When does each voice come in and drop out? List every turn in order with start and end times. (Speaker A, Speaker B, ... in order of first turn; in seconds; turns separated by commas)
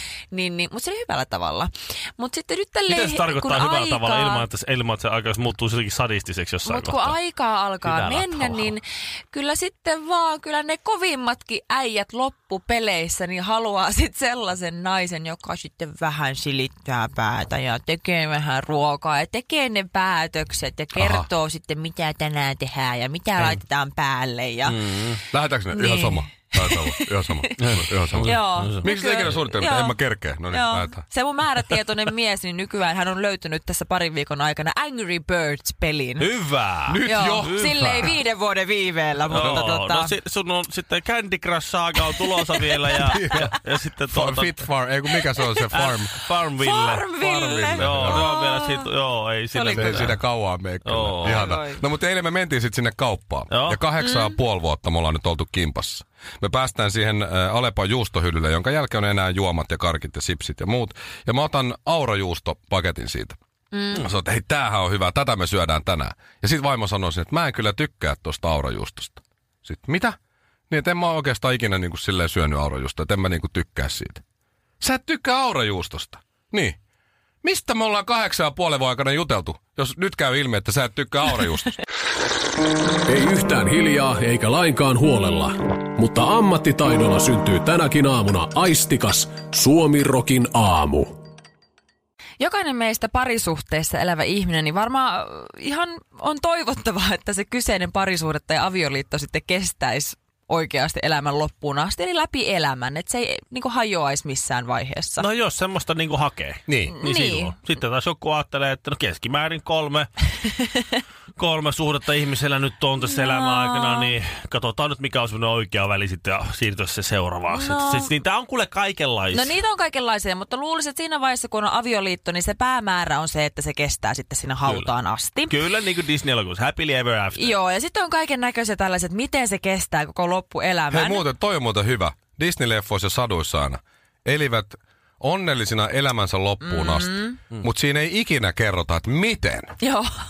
Speaker A: 0.3-4.5, Speaker B: 2.9-7.2, Speaker A: 6.7-24.8, Speaker B: 7.8-8.7, Speaker C: 20.9-21.3, Speaker B: 24.6-25.2, Speaker C: 25.3-31.0, Speaker A: 25.7-36.3, Speaker B: 27.6-29.3, Speaker B: 36.2-38.1, Speaker C: 36.9-38.1, Speaker A: 37.0-40.1, Speaker B: 39.3-44.6, Speaker C: 43.0-43.5, Speaker A: 43.0-43.5, Speaker C: 44.1-46.2, Speaker B: 45.7-47.1, Speaker A: 46.6-48.9, Speaker C: 47.1-48.3, Speaker B: 47.8-50.2, Speaker A: 49.5-50.1, Speaker C: 49.7-63.4, Speaker B: 50.9-51.4, Speaker A: 51.2-51.8, Speaker B: 53.5-53.8, Speaker A: 54.0-54.4, Speaker A: 63.7-64.0, Speaker C: 63.9-70.2, Speaker C: 70.7-74.2, Speaker C: 74.8-76.8, Speaker C: 77.4-81.7, Speaker D: 83.1-91.1, Speaker A: 92.4-105.3, Speaker B: 105.2-110.1, Speaker C: 106.7-106.9, Speaker A: 106.9-107.5, Speaker B: 111.4-119.5, Speaker A: 113.1-114.1, Speaker A: 117.5-118.1, Speaker A: 119.3-125.6, Speaker B: 125.5-127.5, Speaker A: 127.3-131.3, Speaker C: 130.9-139.7, Speaker A: 136.6-137.4, Speaker A: 139.8-140.1